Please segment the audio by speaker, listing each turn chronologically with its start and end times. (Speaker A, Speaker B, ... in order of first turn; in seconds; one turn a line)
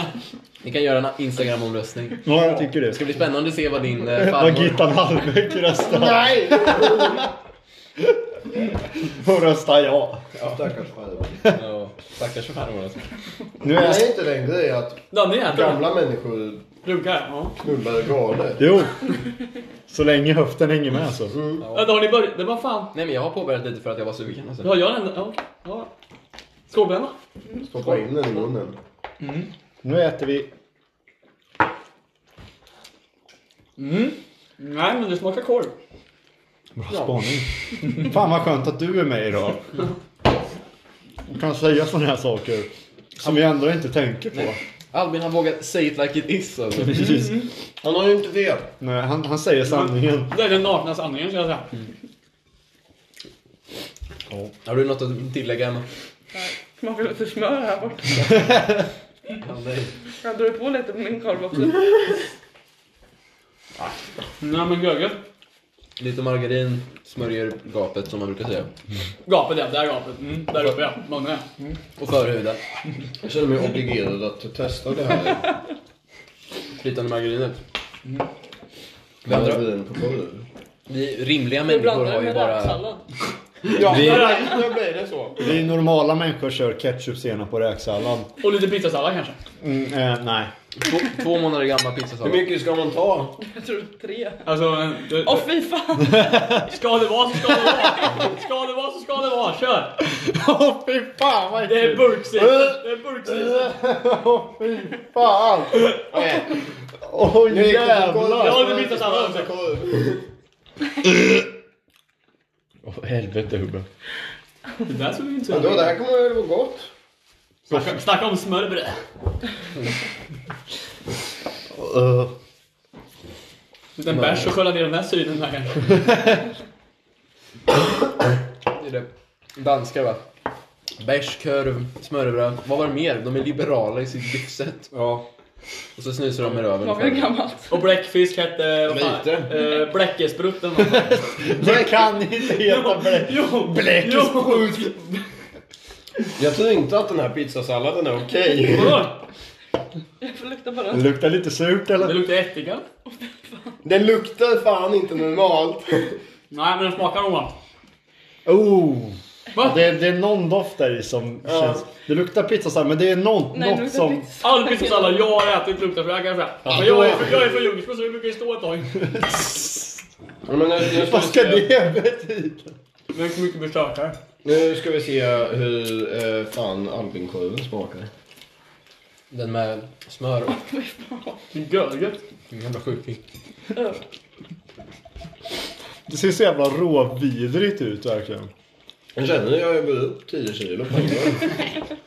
Speaker A: 0.6-4.8
Speaker B: 2.2-3.0
Speaker B: 4.1-7.3
Speaker C: 6.0-7.2
Speaker B: 8.0-10.2
Speaker C: 10.4-11.4
Speaker A: 11.5-13.0
Speaker B: 13.6-14.1
Speaker C: 13.7-16.7
Speaker D: 15.1-15.8
Speaker D: 16.8-17.5
Speaker C: 17.6-18.6
Speaker B: 18.6-19.1
Speaker B: 19.9-21.3
Speaker C: 21.3-21.6
Speaker A: 21.6-21.9
Speaker D: 21.7-22.9
Speaker A: 22.9-24.7
Speaker D: 24.6-25.9
Speaker D: 26.7-27.1
Speaker C: 27.6-28.8
Speaker D: 29.2-29.5
Speaker B: 29.8-30.5
Speaker D: 33.8-35.7
Speaker B: 36.8-39.7
Speaker B: 41.3-44.6
Speaker A: 44.3-47.2
Speaker B: 46.9-47.4
Speaker D: 47.1-47.5
Speaker C: 47.8-48.7
Speaker B: 48.8-50.3
Speaker D: 50.3-51.7
Speaker A: 54.6-55.8
Speaker E: 56.3-58.4
Speaker A: 59.4-59.9
Speaker E: 60.2-62.1
Speaker D: 64.4-65.2
Speaker A: 66.0-68.7
Speaker D: 69.2-71.5
Speaker A: 72.0-72.6
Speaker C: 73.2-75.5
Speaker A: 76.8-77.6
Speaker A: 79.2-79.6
Speaker C: 79.2-80.4
Speaker A: 80.9-82.8
Speaker E: 81.6-83.0
Speaker C: 83.7-85.6
Speaker D: 83.8-84.5
Speaker A: 83.9-84.2
Speaker B: 85.4-88.3
Speaker D: 88.4-89.3
Speaker B: 89.6-90.5
Speaker A: 90.8-92.4
Speaker C: 92.2-93.3
Speaker E: 93.4-94.5
Speaker D: 94.5-95.5
Speaker E: 95.2-96.7
Speaker B: 96.2-96.6
Speaker D: 96.7-100.0
Speaker B: 100.1-105.9
Speaker D: 101.6-103.7
Speaker C: 106.1-106.6
Speaker B: 107.0-108.6
Speaker C: 107.5-110.2
Speaker D: 108.3-109.5
Speaker B: 111.0-111.4
Speaker B: 112.8-113.8
Speaker D: 114.8-116.0
Speaker C: 115.5-116.9
Speaker D: 117.7-119.0
Speaker B: 117.7-118.0
Speaker B: 121.7-122.3
Speaker D: 124.0-125.9
Speaker C: 124.1-124.4
Speaker A: 128.7-130.2
Speaker A: 131.0-134.9
Speaker A: 135.9-137.3
Speaker E: 136.7-137.8
Speaker D: 137.7-141.3
Speaker C: 138.9-139.5
Speaker B: 140.8-144.9
Speaker D: 142.5-145.1
Speaker C: 146.3-149.1
Speaker D: 148.6-149.2
Speaker E: 150.2-151.1
Speaker B: 150.9-152.2
Speaker D: 152.0-152.8
Speaker E: 153.2-153.7
Speaker C: 153.8-156.2
Speaker D: 156.5-157.6
Speaker B: 158.4-164.2
Speaker D: 159.5-159.8
Speaker C: 161.4-161.8
Speaker E: 163.5-165.1
Speaker D: 164.4-169.0
Speaker B: 166.6-167.4
Speaker B: 169.1-170.0
Speaker C: 170.4-171.6
Speaker B: 170.8-172.7
Speaker D: 173.1-174.2
Speaker C: 174.4-178.1
Speaker A: 179.3-180.6
Speaker E: 180.6-181.4
Speaker D: 181.5-182.2
Speaker A: 182.5-183.2
Speaker E: 183.7-184.0
Speaker B: 186.1-188.5
Speaker C: 189.2-191.6